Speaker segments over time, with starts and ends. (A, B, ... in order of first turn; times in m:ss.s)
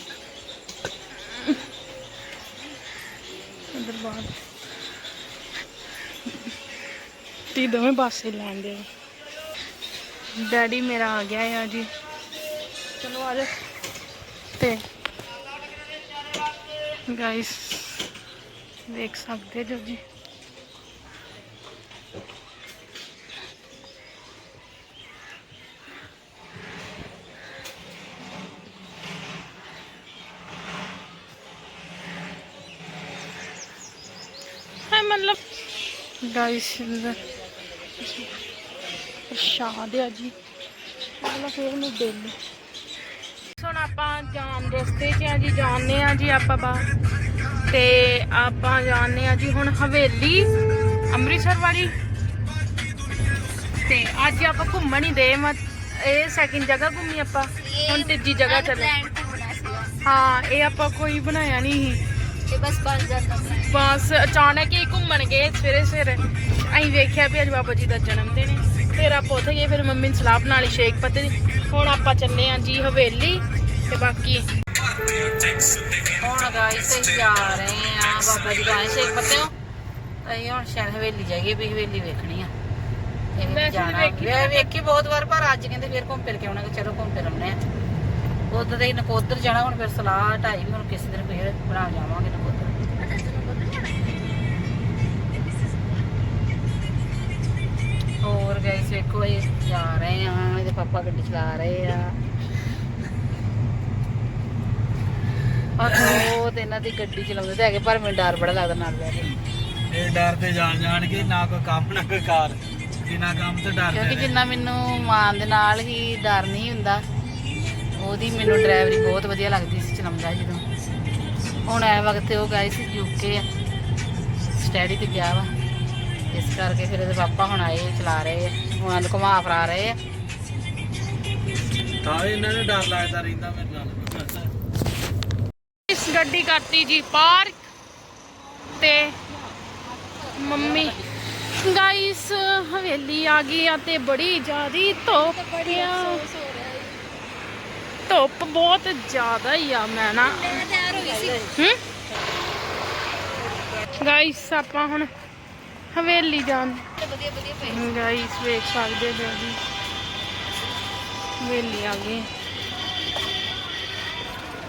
0:01.3-0:01.6 A
0:03.7-0:04.4 A
0:07.5-0:08.9 A
0:10.3-0:11.9 A
0:13.0-0:13.5 A
0:14.6-0:14.8 A
0:17.1-0:18.1 A
0:18.9-0:20.0 A
0:34.9-0:35.4 A
0:36.2-0:37.2 A
0:38.0-0:38.4 A
0:39.3-0:40.3 A
0:41.2-0:42.4 A
0:43.5-0:46.9 A
0:47.7-0:50.5 A
0:51.1-0:51.9 A
0:53.8-0:58.9 A
0:57.6-0:59.9 B
1:00.0-1:02.0 A
1:02.5-1:03.7 B
1:03.5-1:14.5 A
1:16.1-1:19.5 C
1:20.2-1:22.5 C
1:23.4-1:27.6 C
1:23.4-1:24.7 A
1:28.5-1:32.8 C
1:33.0-1:34.0 B
1:38.2-1:42.2 C
1:45.8-1:49.4 C
1:49.9-1:54.3 D
1:53.9-1:57.0 C
1:58.0-2:00.6 C
2:01.7-2:03.4 C
2:04.5-2:05.5 C
2:06.3-2:10.0 C
2:12.0-2:14.5 D
2:15.9-2:17.7 A
2:18.8-2:19.2 A
2:20.3-2:21.1 C
2:20.4-2:26.3 A
2:25.1-2:27.0 B
2:28.1-2:30.7 A
2:30.2-2:31.6 C
2:30.4-2:31.4 B
2:34.0-2:35.1 A
2:35.9-2:36.9 A
2:37.0-2:38.0 B
2:37.6-2:39.6 A
2:41.4-2:42.3 A